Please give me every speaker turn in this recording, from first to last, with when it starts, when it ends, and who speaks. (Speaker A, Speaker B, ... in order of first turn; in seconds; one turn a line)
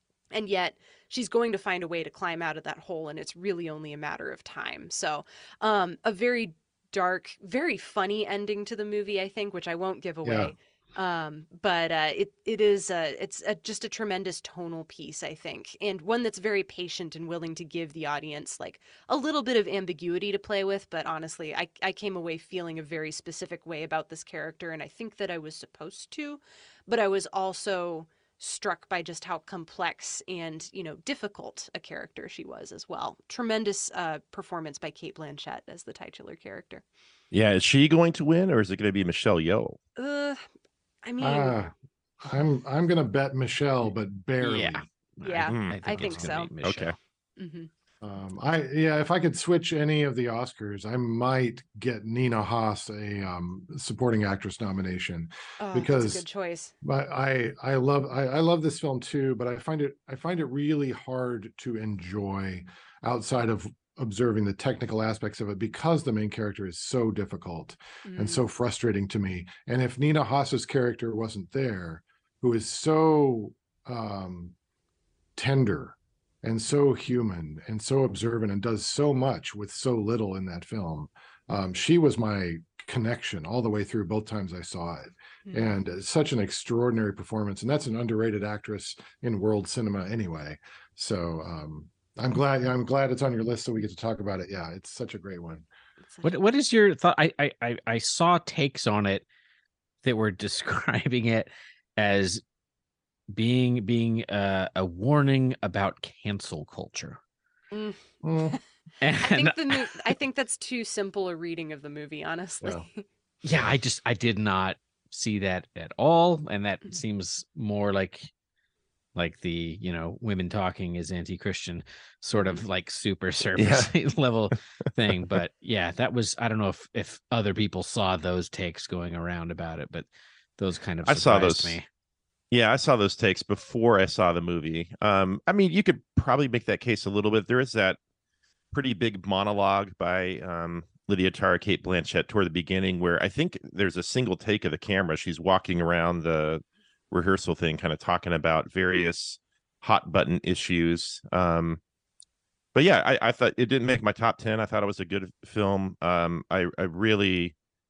Speaker A: 0.3-36.8
Speaker B: 10.2-10.5
Speaker C: 37.3-39.8
Speaker A: 40.0-40.4
Speaker A: 41.0-41.6
Speaker B: 41.2-44.8
Speaker D: 44.4-47.0
Speaker A: 45.2-46.5
Speaker C: 45.5-47.0
Speaker A: 47.4-47.7
Speaker B: 48.0-56.2
Speaker A: 55.6-56.7
Speaker B: 56.8-74.5
Speaker A: 68.1-68.5
Speaker B: 75.4-95.7
Speaker A: 96.1-96.3
Speaker D: 96.2-99.2
Speaker D: 100.0-102.4
Speaker D: 103.3-107.2
Speaker A: 107.7-108.0
Speaker B: 108.2-108.6
Speaker D: 109.0-110.0
Speaker A: 109.2-113.0
Speaker D: 113.4-118.3
Speaker D: 119.2-130.1
Speaker A: 122.4-122.6
Speaker C: 123.6-123.9
Speaker D: 130.6-131.9
Speaker C: 131.1-131.8
Speaker C: 132.5-138.0
Speaker C: 138.7-151.8
Speaker C: 152.8-157.6